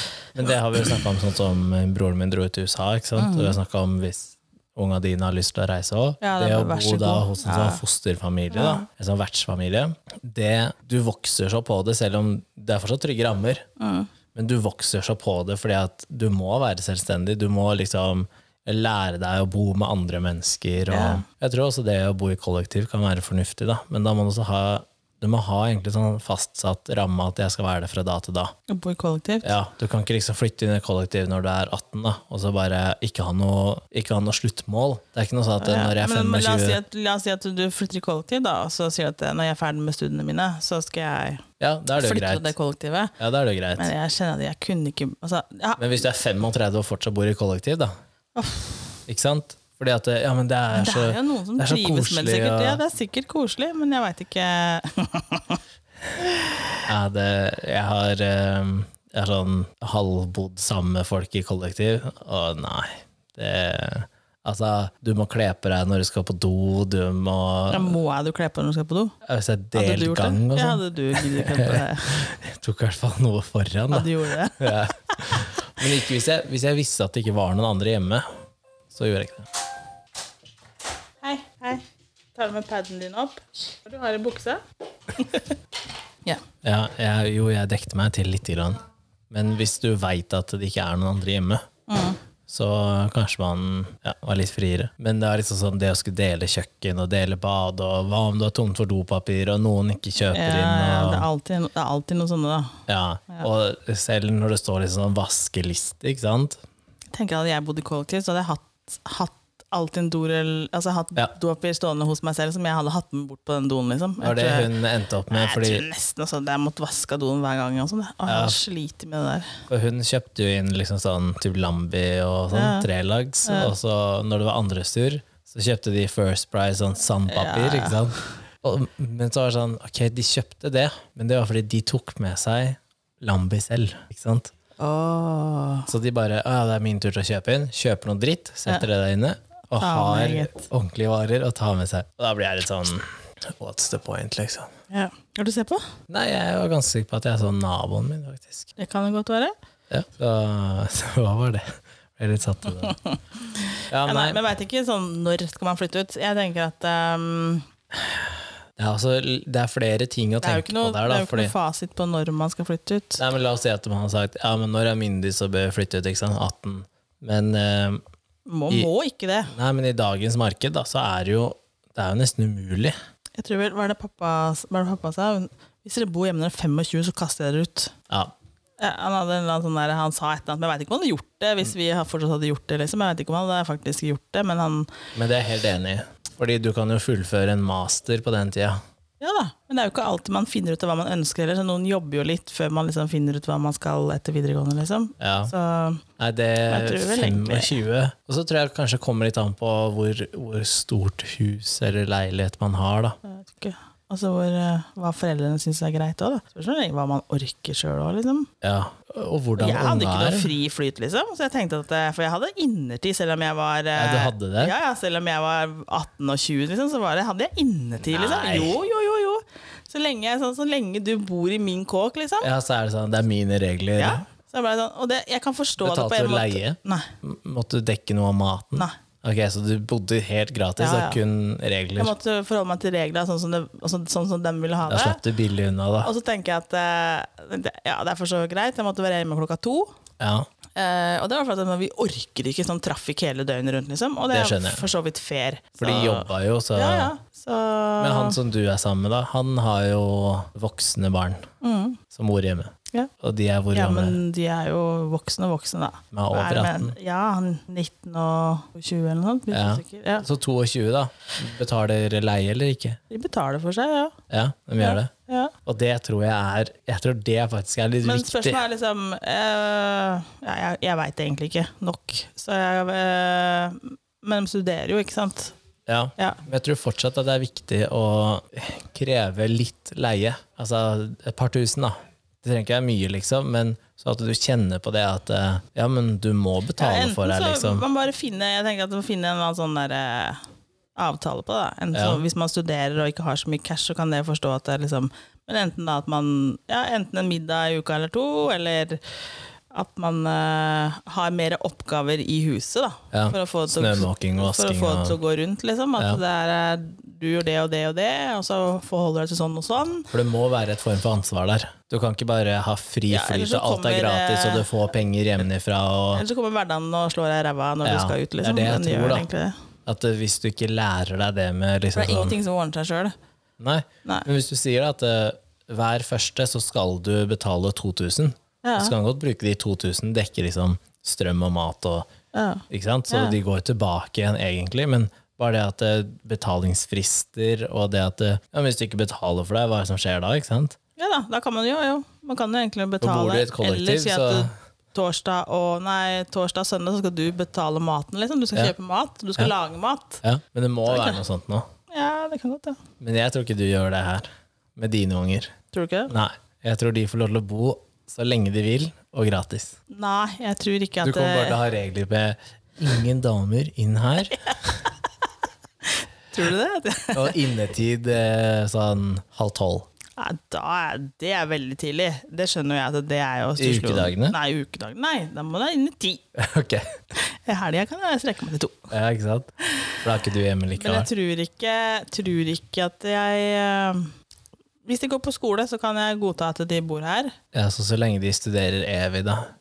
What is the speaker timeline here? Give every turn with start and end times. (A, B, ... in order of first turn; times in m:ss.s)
0:00.3-0:13.6 A
0:03.2-0:03.6 B
0:06.2-0:07.8 B
0:08.5-0:08.8 B
0:13.8-0:14.1 B
0:14.3-0:28.5 A
0:20.9-0:21.2 B
0:28.7-0:29.5 B
0:29.4-0:36.8 A
0:35.6-0:43.1 B
0:41.6-0:42.5 A
0:43.2-0:43.9 A
0:43.8-0:46.0 B
0:45.8-0:47.9 A
0:48.3-0:48.9 B
0:49.1-0:52.8 A
0:50.7-0:55.6 B
0:56.2-0:56.8 B
0:56.9-1:08.0 A
1:07.7-1:09.1 B
1:09.2-1:18.2 A
1:09.7-1:12.2 B
1:13.9-1:15.4 B
1:18.9-1:19.5 A
1:21.2-1:21.8 B
1:22.3-1:24.6 B
1:25.1-1:25.6 B
1:26.6-1:31.6 A
1:31.9-1:32.2 B
1:32.5-1:41.3 A
1:40.3-1:42.8 B
1:42.9-1:46.6 A
1:47.1-1:54.7 B
1:54.2-1:55.8 A
1:55.3-1:59.6 B
1:58.2-1:58.6 A
1:59.7-2:14.5 A
2:02.5-2:02.9 B
2:03.4-2:03.7 B
2:07.3-2:08.2 B
2:14.8-2:15.9 B
2:15.9-2:24.7 A
2:19.8-2:20.7 B
2:24.9-2:25.8 B
2:26.1-2:28.7 A
2:28.8-2:29.5 B
2:29.9-2:33.0 A
2:32.8-2:37.7 B
2:33.9-2:34.4 A
2:38.8-2:41.5 A
2:40.4-2:43.2 B
2:43.2-2:48.0 A
2:48.5-2:49.5 B
2:49.5-2:52.9 A
2:53.4-2:57.9 B
2:58.8-3:04.9 B
3:05.1-3:08.8 A
3:09.2-3:16.0 B
3:15.2-3:15.5 A
3:16.2-3:23.2 A
3:16.7-3:17.8 B
3:23.2-3:28.5 B
3:28.6-3:30.5 A
3:29.6-3:42.5 B
3:33.9-3:34.7 A
3:38.1-3:38.8 A
3:42.4-3:44.2 A
3:44.0-3:47.1 B
3:45.8-3:52.1 A
3:50.8-3:51.2 B
3:52.0-3:55.2 B
3:54.9-3:56.1 A
3:56.0-3:59.9 B
4:00.2-4:00.5 A
4:00.8-4:08.4 B
4:04.3-4:04.8 A
4:05.8-4:07.1 A
4:08.0-4:11.4 A
4:11.6-4:12.0 B
4:12.1-4:14.2 A
4:13.7-4:20.3 B
4:16.1-4:16.9 A
4:19.5-4:23.0 A
4:23.1-4:24.2 B
4:24.3-4:25.1 A
4:24.8-4:25.5 B
4:25.6-4:28.6 A
4:28.0-4:35.5 B
4:35.9-4:47.8 A
4:46.8-4:50.4 B
4:51.0-4:59.0 B
4:51.9-4:52.2 A
4:59.7-5:10.1 B
5:03.1-5:05.2 A
5:10.1-5:16.2 A
5:13.1-5:14.7 B
5:16.1-5:19.6 B
5:17.8-5:19.3 A
5:19.8-5:22.4 A
5:21.9-5:23.1 B
5:23.6-5:32.1 A
5:28.6-5:28.9 B
5:32.3-5:33.4 B
5:32.7-5:40.8 A
5:41.0-5:50.2 B
5:43.0-5:44.5 A
5:50.2-5:51.7 A
5:50.9-5:51.2 B
5:51.9-5:52.8 B
5:53.0-5:55.5 A
5:55.7-5:56.1 B
5:56.1-5:59.8 A
5:59.9-6:01.6 B
6:01.0-6:04.8 A
6:05.8-6:07.4 B
6:07.1-6:09.9 A
6:10.2-6:16.2 B
6:13.6-6:14.4 A
6:16.3-6:16.9 A
6:17.1-6:18.9 B
6:18.9-6:19.5 A
6:20.0-6:21.1 A
6:20.8-6:24.1 B
6:24.8-6:27.3 B
6:27.5-6:29.5 A